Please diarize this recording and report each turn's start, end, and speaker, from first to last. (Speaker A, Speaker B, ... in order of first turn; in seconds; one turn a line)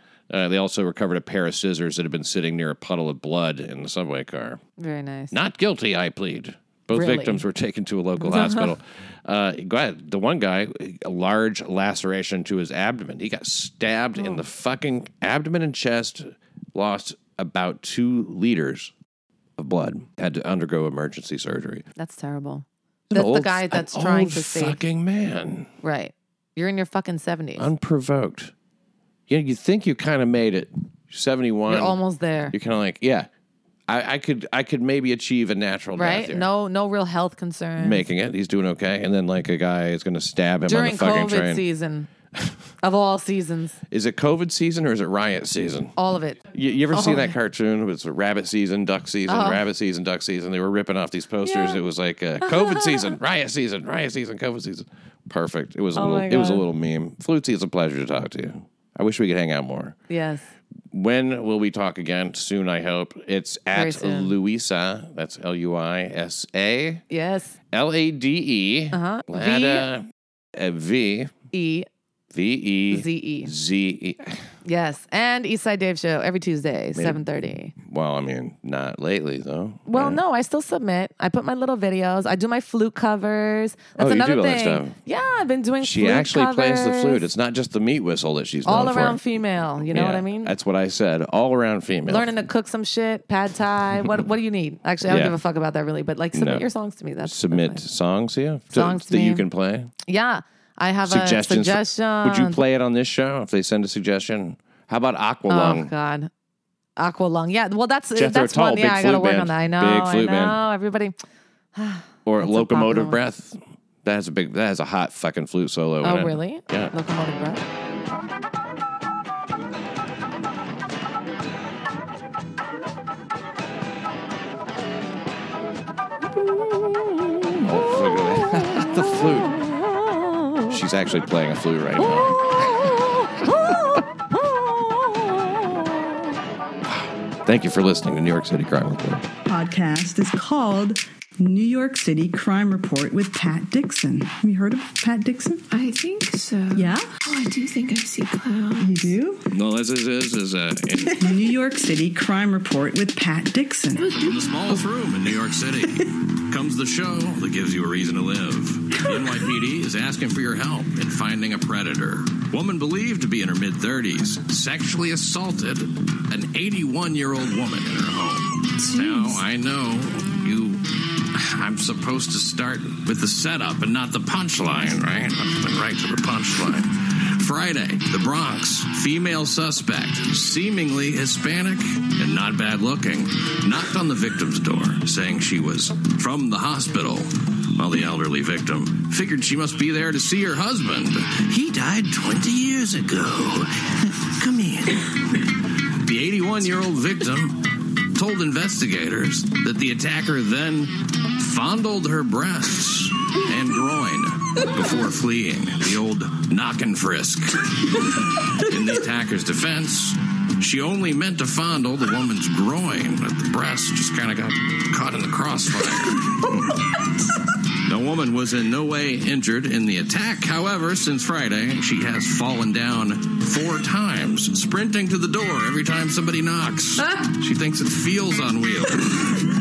Speaker A: 0.3-4.6
Speaker B: 4.8-5.3
Speaker A: 5.3-18.9
Speaker B: 6.9-7.4
Speaker B: 8.2-8.7
Speaker B: 14.2-14.4
Speaker A: 19.6-21.8
Speaker B: 21.9-24.8
Speaker A: 23.1-25.7
Speaker B: 25.8-27.7
Speaker A: 27.6-28.5
Speaker A: 29.3-32.0
Speaker B: 31.7-32.5
Speaker A: 32.5-33.3
Speaker A: 33.9-36.5
Speaker B: 36.0-38.0
Speaker A: 37.8-41.6
Speaker B: 40.6-42.1
Speaker B: 42.8-43.8
Speaker A: 43.9-45.9
Speaker B: 46.0-47.4
Speaker A: 46.5-60.0
Speaker B: 49.3-49.6
Speaker B: 51.4-51.8
Speaker B: 52.4-53.1
Speaker B: 55.9-56.6
Speaker B: 60.1-60.4
Speaker A: 60.9-67.0
Speaker B: 63.7-64.3
Speaker B: 67.1-67.5
Speaker A: 67.7-71.3
Speaker B: 68.9-69.9
Speaker B: 71.5-71.9
Speaker A: 72.3-74.5
Speaker B: 72.9-73.5
Speaker B: 74.6-77.7
Speaker A: 76.9-77.2
Speaker A: 77.8-80.2
Speaker B: 79.9-87.3
Speaker A: 84.0-84.9
Speaker A: 85.8-89.2
Speaker B: 88.6-90.5
Speaker A: 89.9-92.3
Speaker B: 92.1-97.8
Speaker A: 95.1-95.3
Speaker A: 96.3-96.6
Speaker A: 97.2-99.9
Speaker B: 98.7-99.5
Speaker B: 100.0-102.6
Speaker A: 101.0-105.9
Speaker B: 105.5-106.3
Speaker B: 107.0-111.1
Speaker A: 108.2-110.6
Speaker B: 111.7-113.2
Speaker A: 112.2-116.9
Speaker B: 116.0-117.6
Speaker B: 126.8-127.7
Speaker A: 127.6-129.6
Speaker B: 128.4-128.8
Speaker B: 129.4-130.8
Speaker A: 130.7-132.8
Speaker B: 132.0-135.8
Speaker A: 136.8-139.2
Speaker C: 139.4-145.6
Speaker D: 145.7-149.2
Speaker C: 146.7-147.2
Speaker C: 148.8-149.5
Speaker A: 149.5-151.2
Speaker C: 151.2-154.8
Speaker D: 154.0-154.4
Speaker A: 154.2-195.4
Speaker D: 168.8-169.4
Speaker A: 196.0-216.8
Speaker A: 217.9-229.4
Speaker D: 227.0-227.3